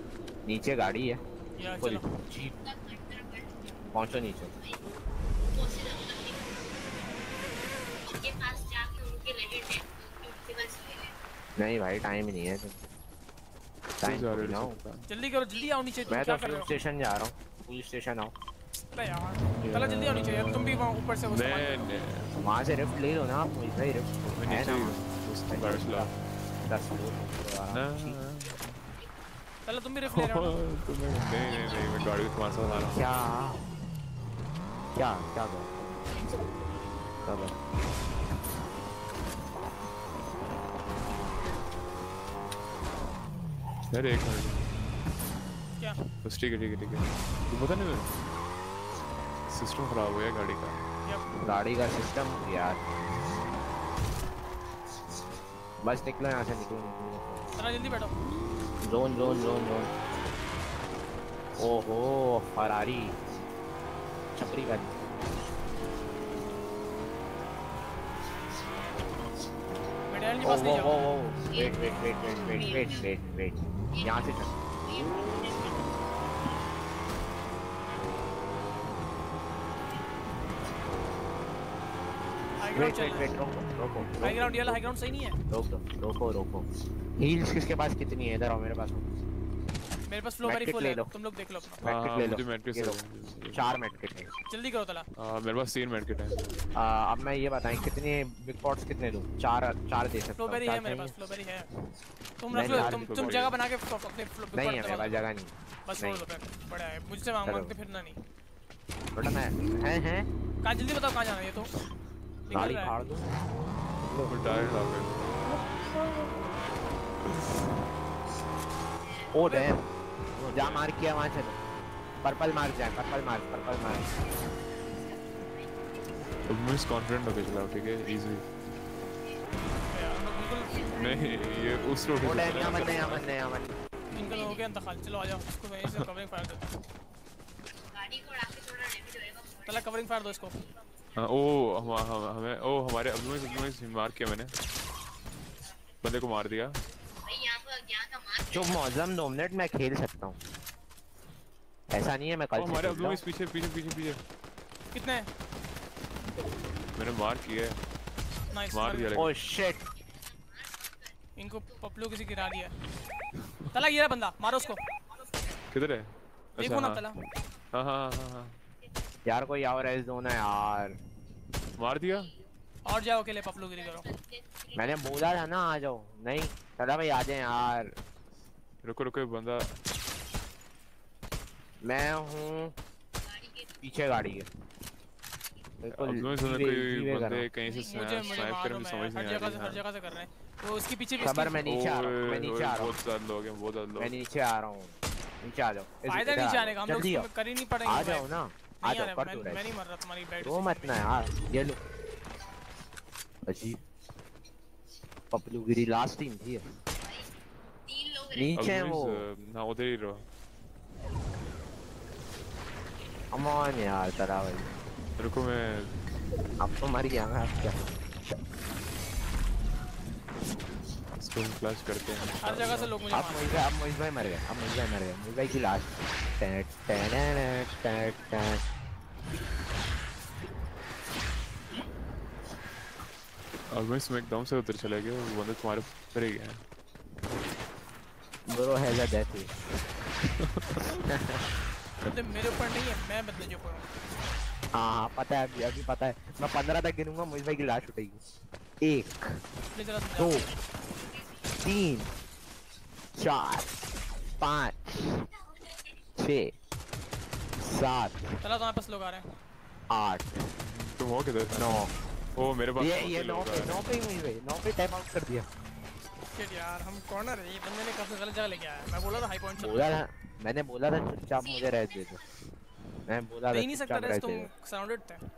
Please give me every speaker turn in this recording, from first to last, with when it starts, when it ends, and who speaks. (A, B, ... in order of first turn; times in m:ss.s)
0:00.5-0:01.2 A
0:01.6-0:02.0 B
0:01.8-0:02.6 A
0:02.9-0:03.2 C
0:03.9-0:04.5 A
0:05.7-0:06.3 C
0:08.2-0:11.1 C
0:11.6-0:12.8 A
0:14.0-0:14.8 A
0:14.0-0:15.1 D
0:15.1-0:16.7 B
0:16.1-0:18.3 A
0:18.9-0:21.9 B
0:19.6-0:22.4 D
0:22.4-0:26.1 A
0:24.3-0:26.2 D
0:26.7-0:28.2 A
0:27.7-0:28.9 D
0:29.6-0:30.6 B
0:30.1-0:33.1 D
0:32.7-0:33.7 A
0:35.0-0:35.9 A
0:37.2-0:37.5 A
0:43.9-0:44.7 D
0:45.8-0:46.1 B
0:46.2-0:48.2 D
0:49.5-0:50.9 D
0:51.0-0:51.3 B
0:51.4-0:52.8 A
0:55.8-0:57.4 A
0:57.6-0:58.1 B
0:58.8-0:59.9 A
1:01.6-1:03.2 A
1:04.4-1:05.0 A
1:10.1-1:11.0 B
1:10.4-1:14.6 A
1:22.6-1:23.4 B
1:22.7-1:24.8 A
1:24.2-1:25.4 B
1:25.5-1:29.1 A
1:30.1-1:31.8 B
1:30.4-1:31.1 A
1:31.8-1:33.0 A
1:31.8-1:34.0 D
1:33.5-1:34.3 A
1:34.5-1:35.1 B
1:35.2-1:36.4 D
1:36.8-1:41.1 A
1:40.4-1:41.7 B
1:42.4-1:45.3 B
1:42.5-1:43.2 A
1:42.6-1:43.6 D
1:44.6-1:46.2 A
1:45.9-1:48.2 B
1:47.5-1:47.7 A
1:49.2-1:50.3 A
1:50.6-1:51.7 B
1:52.5-1:53.0 B
1:52.5-1:53.3 A
1:54.0-1:54.3 A
1:54.3-1:55.4 D
1:59.3-1:59.8 A
1:59.4-1:59.8 B
2:00.4-2:00.8 D
2:00.5-2:01.6 A
2:02.2-2:04.1 A
2:06.5-2:08.5 D
2:09.8-2:10.9 B
2:10.8-2:13.3 D
2:12.2-2:13.8 A
2:14.1-2:16.7 B
2:18.0-2:19.5 C
2:19.6-2:20.6 B
2:21.1-2:24.5 D
2:26.0-2:26.8 D
2:27.5-2:28.4 C
2:28.5-2:30.4 A
2:31.9-2:33.2 A
2:32.6-2:34.2 D
2:34.9-2:35.3 B
2:36.9-2:37.8 D
2:38.5-2:39.2 B
2:38.7-2:39.4 D
2:39.1-2:39.8 A
2:41.4-2:42.7 B
2:43.7-2:44.8 B
2:45.7-2:47.0 D
2:46.6-2:47.3 B
2:47.7-2:48.6 D
2:49.3-2:51.0 A
2:51.8-2:52.4 D
2:52.8-2:54.1 B
2:54.7-2:57.9 A
2:58.8-2:59.8 D
3:01.8-3:02.7 A
3:03.8-3:04.5 A
3:05.8-3:07.5 A
3:05.9-3:09.8 D
3:07.7-3:11.6 B
3:11.2-3:13.0 A
3:11.6-3:14.2 D
3:14.0-3:17.3 A
3:16.1-3:18.3 B
3:17.9-3:19.7 A
3:18.8-3:21.0 B
3:20.4-3:21.8 A
3:23.5-3:23.8 A
3:25.3-3:26.6 A
3:28.3-3:29.2 A
3:28.5-3:30.3 D
3:33.3-3:34.7 A
3:35.2-3:36.0 D
3:36.6-3:37.8 A
3:41.2-3:42.9 D
3:42.4-3:43.6 B
3:43.1-3:48.6 A
3:53.7-3:56.6 D
3:58.5-3:59.5 A
4:00.4-4:01.0 D
4:00.9-4:01.4 A
4:02.0-4:03.9 B
4:04.8-4:08.2 A
4:08.8-4:09.4 A
4:09.7-4:10.4 B
4:10.2-4:10.5 A
4:11.6-4:12.1 A
4:13.2-4:13.7 A
4:14.4-4:15.3 A
4:16.2-4:16.5 A
4:17.6-4:18.4 A
4:18.4-4:19.2 B
4:19.9-4:20.4 A
4:20.6-4:23.8 D
4:21.6-4:21.9 A
4:22.8-4:25.5 A
4:26.3-4:29.9 B
4:29.6-4:32.2 A
4:33.1-4:34.5 A
4:33.5-4:35.2 B